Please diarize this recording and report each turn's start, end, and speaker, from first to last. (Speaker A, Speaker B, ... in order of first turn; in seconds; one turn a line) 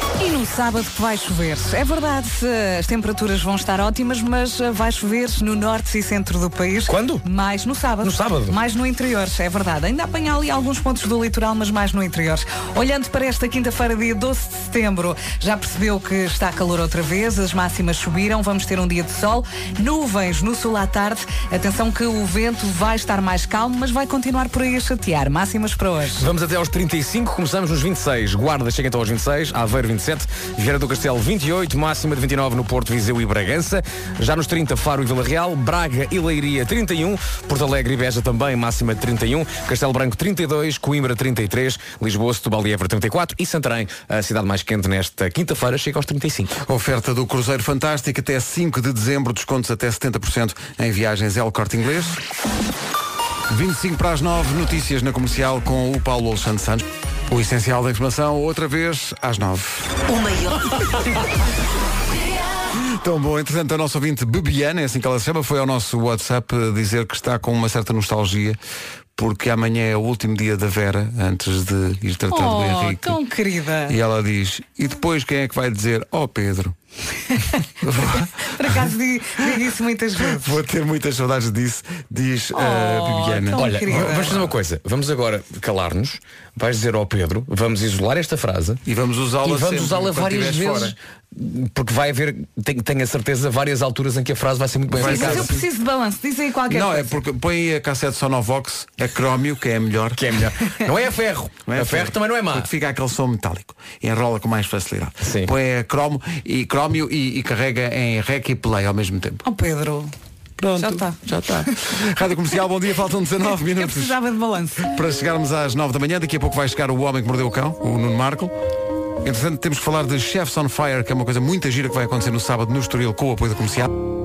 Speaker A: 0.2-26.2
Speaker B: 6.9-7.3
Speaker B: 8.0-8.6
Speaker B: 26.2-46.6
Speaker C: 46.6-52.2
Speaker C: 53.5-60.0
Speaker C: 62.8-68.6
Speaker C: 69.2-73.2
Speaker A: 72.3-74.0
Speaker C: 73.9-76.8
Speaker C: 77.8-78.8
Speaker A: 78.5-80.6
Speaker C: 80.3-84.4
Speaker A: 82.5-84.5
Speaker B: 83.6-88.8
Speaker C: 88.8-91.0
Speaker B: 89.4-95.5
Speaker C: 95.0-95.7
Speaker A: 95.0-97.1
Speaker C: 96.7-100.3
Speaker B: 100.2-102.7
Speaker C: 101.7-109.4
Speaker B: 105.2-105.5
Speaker A: 109.5-110.1
Speaker C: 110.6-114.2
Speaker A: 110.8-111.7
Speaker A: 113.5-114.9
Speaker C: 114.8-118.5
Speaker C: 119.2-124.0